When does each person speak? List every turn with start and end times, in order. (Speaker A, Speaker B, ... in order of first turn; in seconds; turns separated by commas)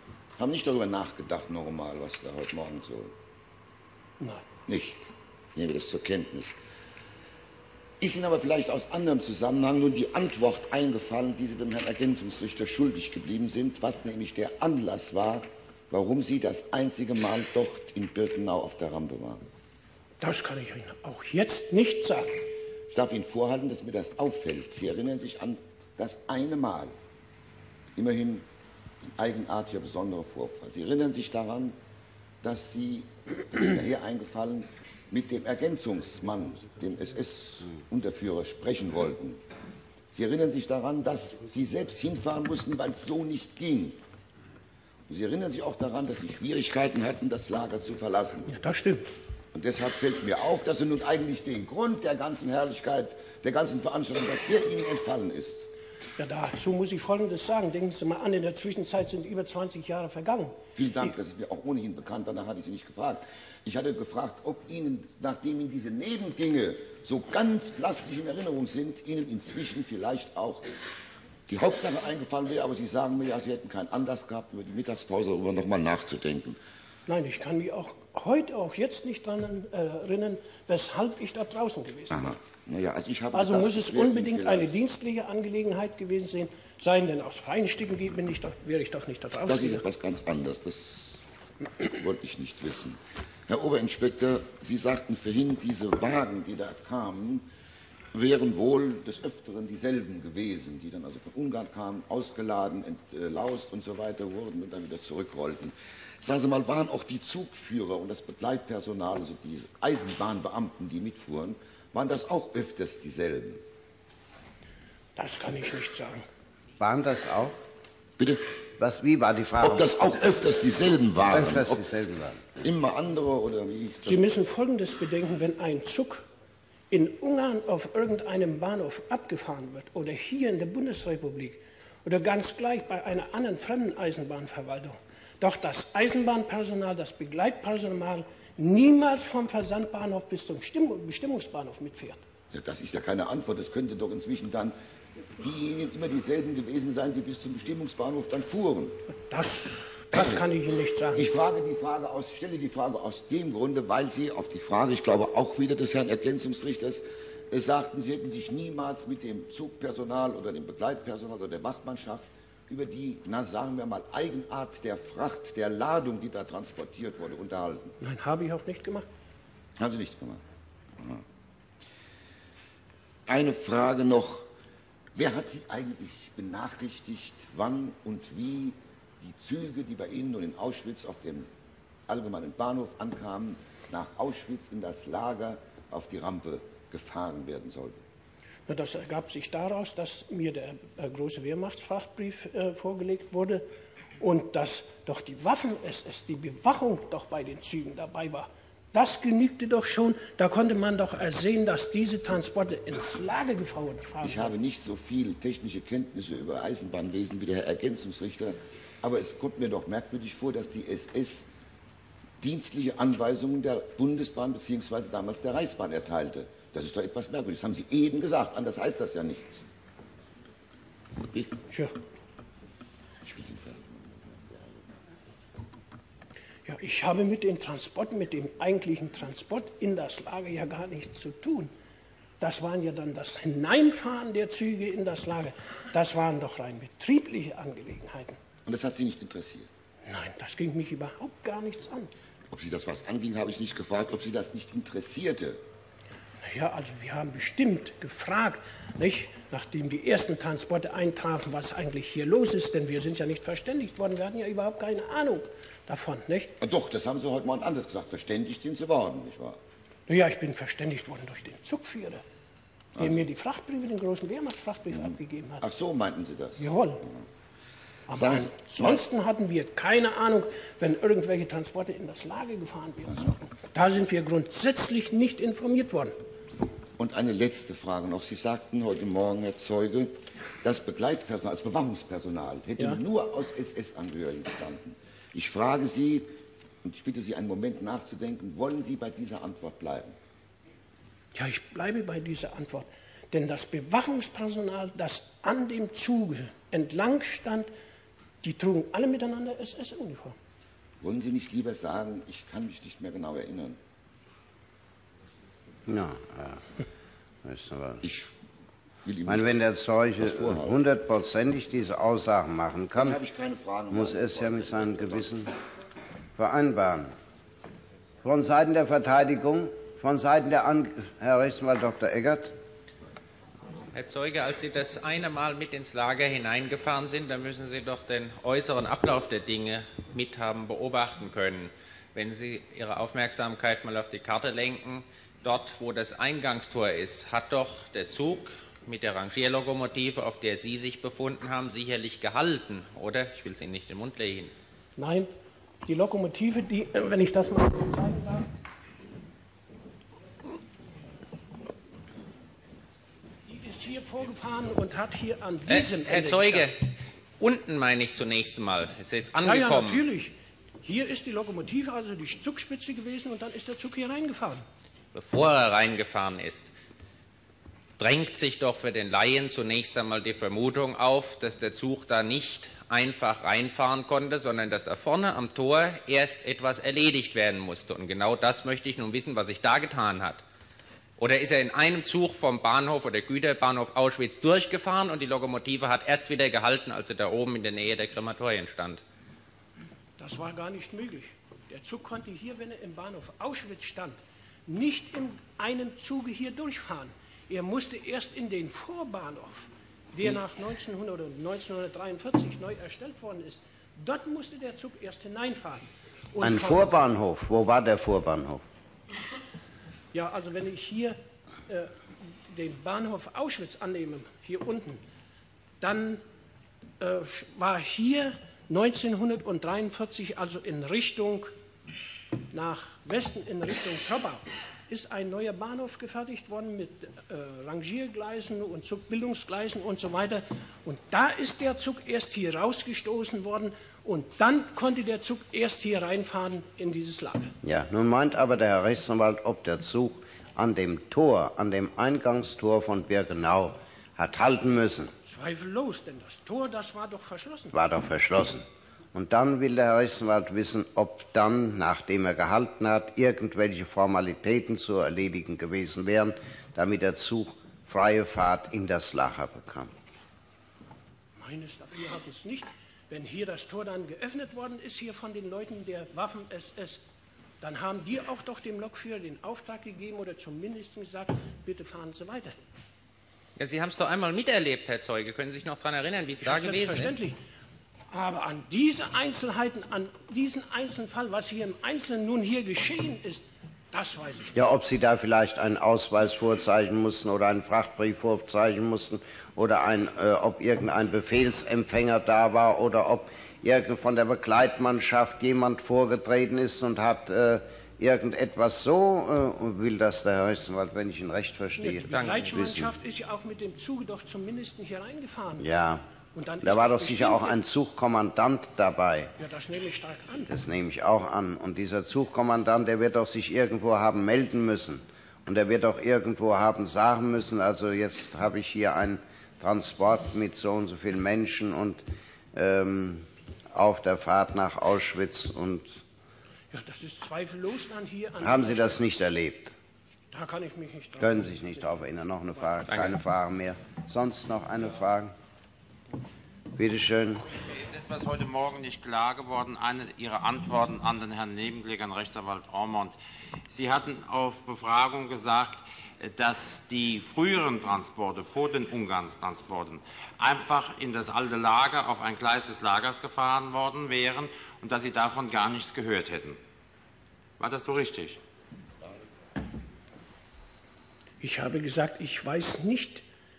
Speaker A: 0.4-3.1, Speaker B: 4.2-4.5, Speaker A: 4.7-6.5, Speaker A: 8.0-19.4, Speaker B: 20.2-22.4, Speaker A: 22.9-26.9, Speaker A: 28.0-28.5, Speaker A: 29.2-31.8, Speaker A: 32.4-39.4, Speaker A: 40.1-44.0, Speaker A: 45.1-48.5, Speaker B: 48.5-49.1, Speaker A: 49.5-55.7, Speaker B: 56.2-61.1, Speaker A: 60.8-70.8, Speaker A: 71.5-76.6, Speaker B: 77.1-82.3, Speaker A: 82.1-84.7, Speaker B: 83.3-89.8, Speaker A: 89.5-91.2, Speaker A: 91.8-97.5, Speaker A: 98.1-113.6, Speaker B: 115.2-116.2, Speaker C: 116.8-117.6, Speaker A: 118.2-118.5, Speaker C: 118.8-120.0, Speaker A: 119.6-122.0, Speaker C: 121.3-122.4, Speaker A: 122.5-124.3, Speaker B: 124.1-126.2, Speaker B: 126.9-142.2, Speaker A: 142.5-144.8, Speaker A: 145.4-149.0, Speaker B: 149.3-151.2, Speaker A: 150.1-150.5, Speaker A: 151.1-167.9, Speaker B: 168.0-169.1, Speaker A: 169.8-170.4, Speaker A: 171.0-171.2, Speaker A: 173.3-174.5, Speaker A: 175.2-181.5, Speaker A: 182.1-188.0, Speaker B: 188.7-193.7, Speaker B: 194.2-204.5, Speaker A: 204.2-211.5, Speaker A: 212.4-219.6, Speaker A: 221.3-221.6, Speaker A: 223.2-224.0, Speaker B: 226.7-231.7, Speaker B: 232.4-238.4, Speaker A: 238.7-239.7, Speaker B: 240.1-242.1, Speaker A: 242.5-245.6, Speaker B: 246.4-256.5, Speaker A: 256.6-259.6, Speaker B: 260.1-262.2, Speaker A: 263.0-263.2, Speaker B: 263.0-265.6, Speaker A: 264.9-267.1, Speaker B: 266.6-267.0, Speaker B: 268.1-276.1, Speaker A: 268.1-269.1, Speaker A: 277.0-286.3, Speaker A: 286.8-290.2, Speaker B: 291.4-297.7, Speaker B: 298.4-300.4, Speaker A: 301.0-303.8, Speaker C: 305.9-306.6, Speaker C: 307.4-308.1, Speaker A: 308.0-308.3, Speaker A: 309.0-309.5, Speaker C: 309.3-313.2, Speaker A: 310.2-310.8, Speaker A: 313.0-315.3, Speaker C: 313.9-315.5, Speaker C: 316.4-317.1, Speaker C: 318.2-322.6, Speaker D: 323.9-344.5, Speaker B: 345.0-345.3, Speaker B: 345.9-348.5, Speaker B: 353.5-356.7, Speaker D: 355.7-360.0, Speaker B: 359.4-364.6, Speaker D: 365.1-366.7, Speaker D: 368.0-380.4, Speaker D: 381.2-389.0, Speaker B: 390.2-406.9, Speaker C: 406.4-408.6, Speaker B: 410.1-415.0, Speaker B: 415.8-416.2, Speaker B: 417.0-421.5, Speaker B: 422.5-437.6, Speaker C: 437.6-445.1, Speaker B: 445.2-447.8, Speaker C: 447.7-459.9, Speaker B: 461.4-467.0, Speaker B: 467.6-472.6, Speaker D: 473.6-477.2, Speaker B: 476.4-477.4, Speaker B: 478.1-484.6, Speaker C: 484.6-502.9, Speaker B: 501.8-505.7, Speaker D: 502.1-502.7, Speaker C: 505.6-506.1, Speaker B: 506.3-507.6, Speaker C: 506.6-509.3, Speaker B: 509.4-510.5, Speaker C: 510.5-526.0, Speaker B: 526.7-529.0, Speaker C: 528.4-529.8, Speaker B: 530.3-531.8, Speaker C: 531.2-535.4, Speaker D: 532.9-533.1, Speaker C: 536.8-537.5, Speaker E: 537.5-543.2, Speaker E: 543.7-556.6, Speaker E: 557.6-558.4, Speaker B: 561.4-563.2